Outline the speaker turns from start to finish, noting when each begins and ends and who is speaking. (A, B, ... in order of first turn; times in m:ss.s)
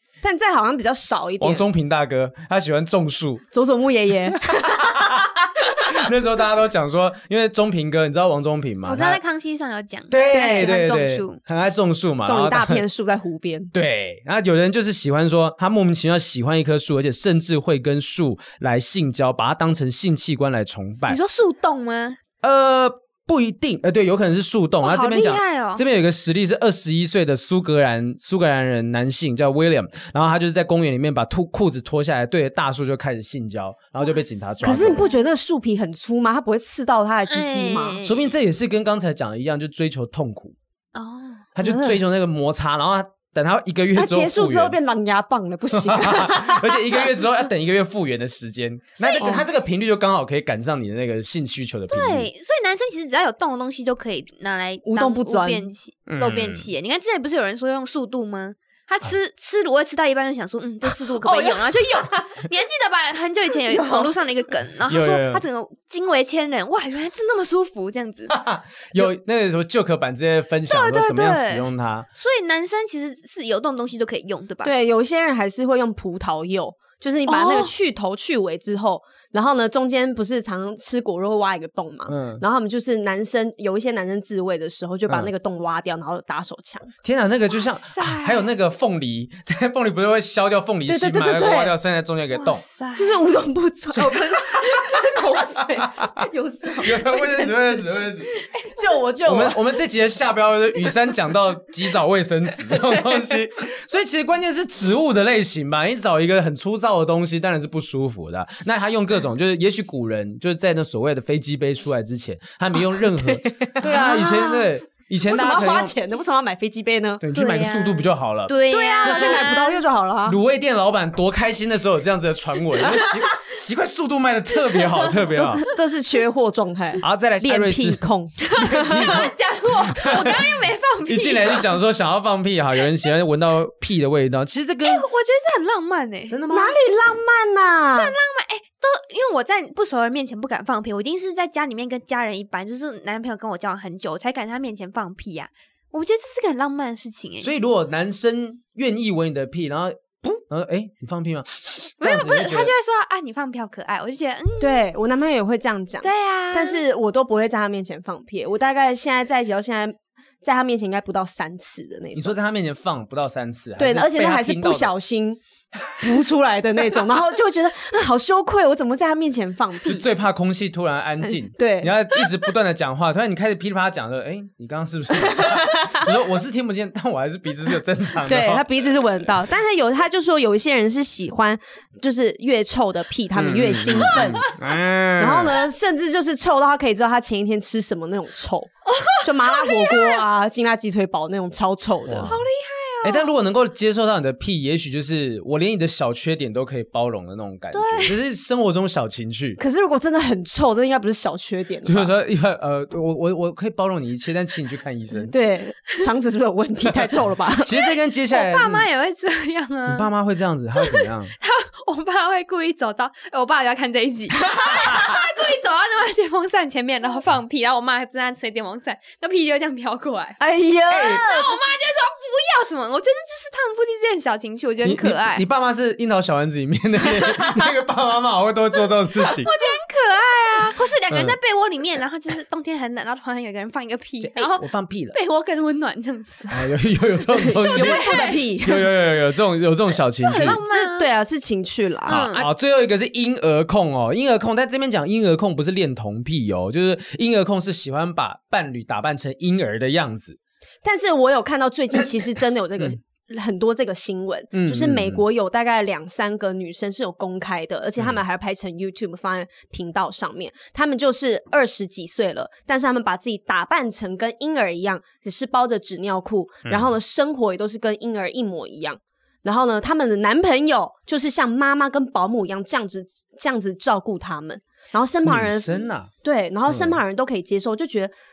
0:00.2-0:01.6 A
0:01.4-0:03.4 B
0:03.5-0:05.2 A
0:04.5-0:09.2 B
0:08.8-0:11.4 C
0:10.1-0:12.8 B
0:10.3-0:10.8 A
0:12.2-0:13.7 A
0:13.7-0:21.2 B
0:21.1-0:22.2 C
0:22.4-0:35.0 B
0:24.8-0:25.8 C
0:34.6-0:38.0 A
0:34.6-0:35.2 C
0:37.3-0:38.3 C
0:38.0-0:40.6 B
0:40.9-0:41.5 C
0:41.6-0:44.8 B
0:41.6-0:42.0 A
0:43.9-0:47.2 A
0:45.7-0:52.3 B
0:49.0-0:49.4 C
0:49.2-0:49.4 A
0:51.9-1:08.4 C
0:54.8-0:55.7 A
0:56.1-0:56.7 B
1:01.1-1:02.3 A
1:03.7-1:04.1 A
1:04.9-1:05.4 B
1:08.3-1:12.1 B
1:10.7-1:14.7 C
1:14.6-1:26.9 A
1:17.3-1:17.7 C
1:22.1-1:22.4 B
1:27.0-1:32.6 B
1:27.6-1:28.5 C
1:30.9-1:31.7 A
1:32.3-1:33.2 C
1:33.0-1:37.9 A
1:33.9-1:35.0 B
1:35.6-1:36.3 B
1:36.8-1:38.3 B
1:38.6-1:39.6 A
1:39.2-1:55.9 B
1:52.9-1:54.7 A
1:55.2-1:57.2 A
1:57.2-1:59.4 B
1:57.3-1:59.8 C
1:58.7-2:00.4 A
2:00.2-2:05.6 B
2:04.7-2:05.3 C
2:05.3-2:09.2 A
2:07.0-2:08.0 B
2:08.4-2:11.7 C
2:08.6-2:15.0 B
2:14.8-2:16.4 C
2:16.3-2:16.8 B
2:16.5-2:18.1 A
2:17.9-2:27.5 C
2:27.4-2:32.7 B
2:32.0-2:34.8 C
2:34.6-2:42.4 A
2:36.0-2:36.8 C
2:42.1-2:44.9 B
2:43.8-2:45.4 A
2:46.0-2:50.0 A
2:49.8-2:59.0 B
2:51.2-2:51.9 A
2:55.2-2:56.1 A
2:58.2-3:04.5 A
3:03.3-3:05.6 B
3:04.1-3:04.5 C
3:05.2-3:12.4 A
3:08.9-3:10.2 C
3:12.1-3:12.4 B
3:12.2-3:13.3 C
3:13.0-3:19.6 B
3:17.7-3:18.2 C
3:19.6-3:22.1 A
3:21.8-3:25.3 B
3:25.2-3:27.8 A
3:27.6-3:28.9 B
3:28.3-3:30.1 C
3:29.8-3:31.3 B
3:30.7-3:45.4 C
3:34.7-3:35.0 B
3:40.4-3:41.5 A
3:40.9-3:41.2 B
3:44.8-3:49.5 B
3:47.2-3:47.5 C
3:49.2-3:56.7 C
3:51.1-3:51.4 B
3:54.2-3:55.2 B
3:56.5-4:00.6 B
3:57.4-3:58.9 A
3:57.6-3:58.4 C
4:00.1-4:01.1 C
4:00.4-4:02.3 A
4:02.0-4:02.5 C
4:02.1-4:10.4 B
4:10.8-4:38.1 A
4:14.5-4:15.2 B
4:26.6-4:26.9 B
4:35.2-4:36.1 B
4:36.7-4:37.0 B